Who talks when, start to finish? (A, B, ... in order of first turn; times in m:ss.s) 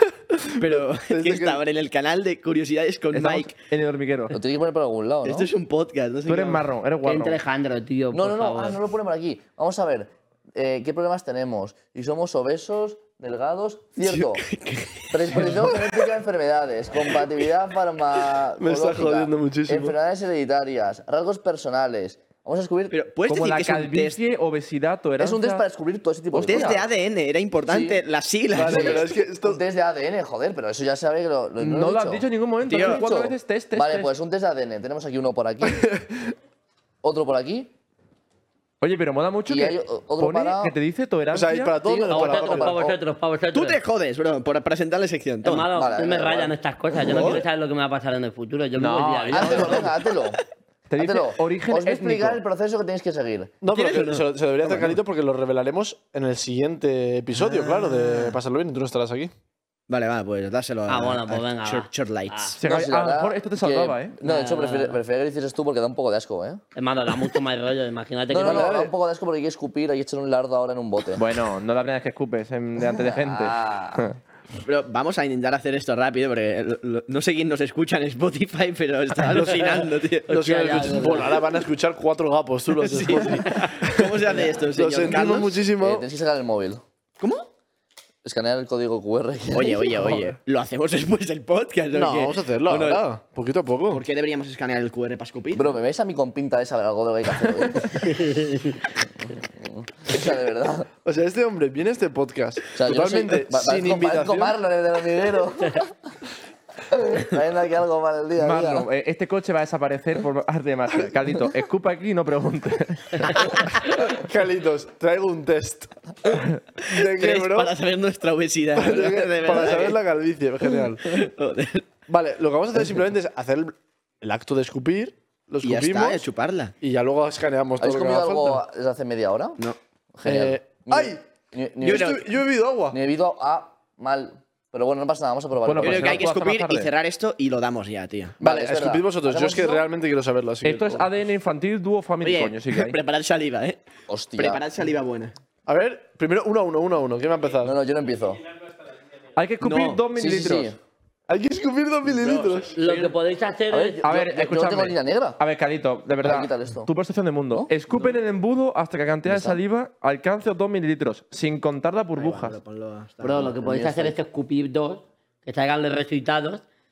0:00.4-0:01.6 A
0:00.5-0:03.5 B
0:03.1-0:04.4 C
0:04.3-0:05.5 D
0:05.2-0:06.6 B
0:06.3-0:07.4 C
0:07.0-0:08.8 E
0:08.1-0:14.4 D
0:14.0-0:16.0 B
0:15.1-0:23.0 D
0:18.6-0:20.0 A
0:22.9-0:24.2 B
0:23.3-0:25.6 C
0:25.2-0:26.8 D
0:26.3-0:26.8 C
0:26.4-0:29.0 B
0:27.7-0:28.0 D
0:28.5-0:29.6 A
0:28.6-0:35.8 D
0:31.6-0:34.1 C
0:32.6-0:33.0 B
0:35.7-0:36.2 A
0:37.0-0:37.7 D
0:38.8-0:41.7 C
0:39.5-0:40.8 D
0:41.3-0:42.8 A
0:41.8-0:43.0 D
0:42.1-0:43.8 E
0:43.5-0:45.7 B
0:45.4-0:49.9 E
0:45.7-0:46.5 D
0:47.0-0:47.4 B
0:48.8-0:49.9 C
0:49.3-0:50.4 D
0:50.9-0:52.4 C
0:51.0-0:53.6 D
0:53.6-0:59.3 A
0:53.7-0:55.0 B
0:57.4-0:58.3 B
0:59.9-1:02.6 B
1:00.9-1:02.6 E
1:02.6-1:04.2 C
1:02.6-1:06.6 D
1:04.2-1:05.0 E
1:06.8-1:08.8 E
1:08.3-1:11.2 D
1:08.4-1:08.9 A
1:11.2-1:14.1 C
1:12.9-1:14.1 D
1:14.6-1:20.3 B
1:19.3-1:26.1 A
1:20.3-1:21.4 E
1:22.8-1:25.6 B
1:25.7-1:26.9 D
1:27.2-1:27.5 B
1:28.2-1:30.0 D
1:29.5-1:33.0 B
1:31.9-1:34.0 A
1:33.9-1:35.8 B
1:35.5-1:38.3 D
1:38.4-1:38.7 E
1:39.6-1:40.9 D
1:41.0-1:44.6 A
1:42.8-1:45.9 D
1:46.9-1:48.9 D
1:48.4-1:53.4 C
1:54.1-1:55.9 A
1:56.8-1:57.7 A
1:57.0-2:00.0 B
1:58.8-2:01.2 A
2:01.1-2:01.9 B
2:02.1-2:06.2 A
2:05.6-2:06.7 B
2:06.8-2:08.6 A
2:07.8-2:09.6 D
2:10.2-2:12.2 D
2:10.2-2:11.2 A
2:11.8-2:12.2 B
2:11.8-2:13.0 A
2:12.9-2:16.2 D
2:15.6-2:16.9 C
2:15.8-2:18.4 B
2:18.4-2:19.9 D
2:18.4-2:21.1 A
2:20.6-2:23.0 C
2:22.2-2:23.8 B
2:24.1-2:24.6 D
2:24.4-2:25.4 B
2:25.7-2:27.8 A
2:27.6-2:28.5 D
2:29.4-2:30.8 C
2:29.6-2:30.0 B
2:30.1-2:30.8 D
2:31.3-2:32.7 A
2:32.0-2:33.2 B
2:32.8-2:34.0 E
2:33.7-2:35.4 D
2:34.0-2:42.6 C
2:36.2-2:36.9 D
2:39.3-2:39.6 D
2:42.2-2:43.6 B
2:43.2-2:46.6 E
2:43.6-2:44.2 D